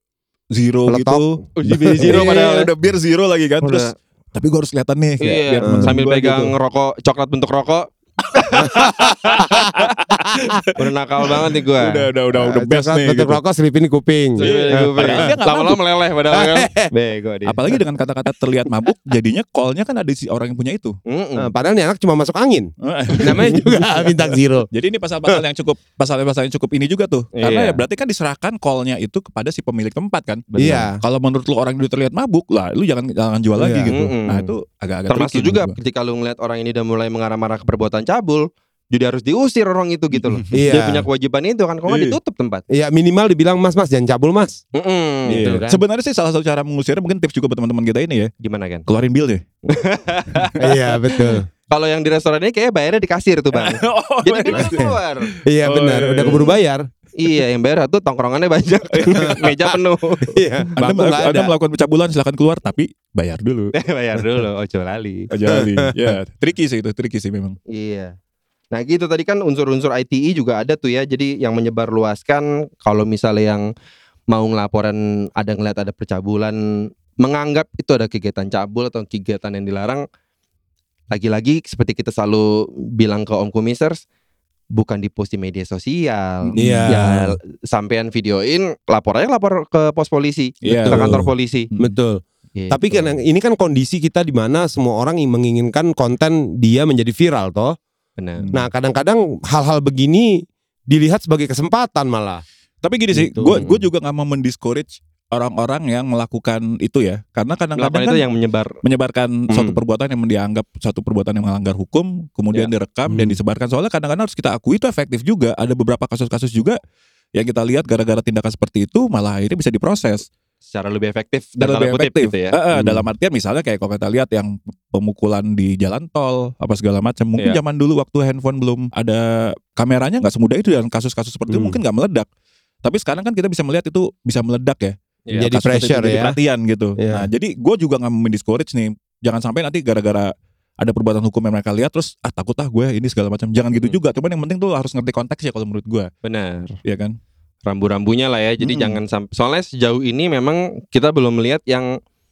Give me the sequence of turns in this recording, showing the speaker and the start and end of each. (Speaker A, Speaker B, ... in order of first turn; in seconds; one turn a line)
Speaker A: 0.5-6.5
Speaker B: 0.9-2.4
Speaker C: 1.6-2.7
Speaker B: 3.6-3.9
Speaker C: 5.2-9.8
Speaker B: 5.6-6.0
Speaker A: 8.4-13.4
Speaker B: 8.6-10.7
Speaker C: 10.8-12.1
Speaker B: 12.3-15.3
Speaker C: 14.4-17.6
Speaker A: 14.4-15.9
Speaker B: 16.3-16.9
Speaker A: 17.5-21.0
Speaker C: 21.1-21.5
Speaker B: 21.4-24.7
Speaker A: 22.8-24.1
Speaker A: 24.7-35.8
Speaker C: 27.4-27.8
Speaker C: 30.5-30.9
Speaker B: 30.6-31.0
Speaker B: 33.6-33.9
Speaker C: 33.9-34.5
Speaker C: 35.1-42.6
Speaker A: 40.2-40.6
Speaker B: 40.5-41.1
Speaker A: 41.9-42.2
Speaker B: 42.7-44.6
Speaker C: 44.7-45.6
Speaker B: 45.3-45.8
Speaker A: 45.3-48.3
Speaker C: 48.4-48.9
Speaker A: 48.9-49.4
Speaker C: 49.7-50.6
Speaker B: 50.6-51.5
Speaker C: 51.7-55.3
Speaker A: 53.5-56.5
Speaker B: 54.6-56.9
Speaker C: 57.2-60.4
Speaker A: 58.9-59.5
Speaker B: 59.1-59.8
Speaker B: 60.3-61.5
Speaker A: 60.8-63.7
Speaker C: 63.7-65.3
Speaker A: 65.3-67.6
Speaker B: 65.5-66.2
Speaker C: 67.7-68.1
Speaker C: 68.7-73.7
Speaker C: 74.3-76.6
Speaker C: 77.2-80.0
Speaker C: 81.1-84.0
Speaker C: 84.8-91.7
Speaker A: 86.5-87.1
Speaker B: 86.6-87.2
Speaker A: 90.6-92.0
Speaker B: 90.9-97.8
Speaker C: 92.6-93.2
Speaker C: 98.2-98.5
Speaker A: 98.4-98.7
Speaker B: 98.5-102.4
Speaker A: 102.8-108.2
Speaker B: 103.1-103.7
Speaker C: 103.5-103.8
Speaker C: 107.8-108.8
Speaker A: 108.8-116.8
Speaker C: 109.5-109.8
Speaker B: 113.1-113.4
Speaker A: 117.3-120.3
Speaker C: 120.7-122.5
Speaker A: 121.6-132.3
Speaker B: 122.7-123.1
Speaker B: 131.5-131.8
Speaker A: 132.8-146.1
Speaker B: 135.4-136.4
Speaker B: 137.0-137.3
Speaker C: 146.2-146.8
Speaker A: 146.8-147.2
Speaker C: 147.7-151.9
Speaker A: 148.6-149.0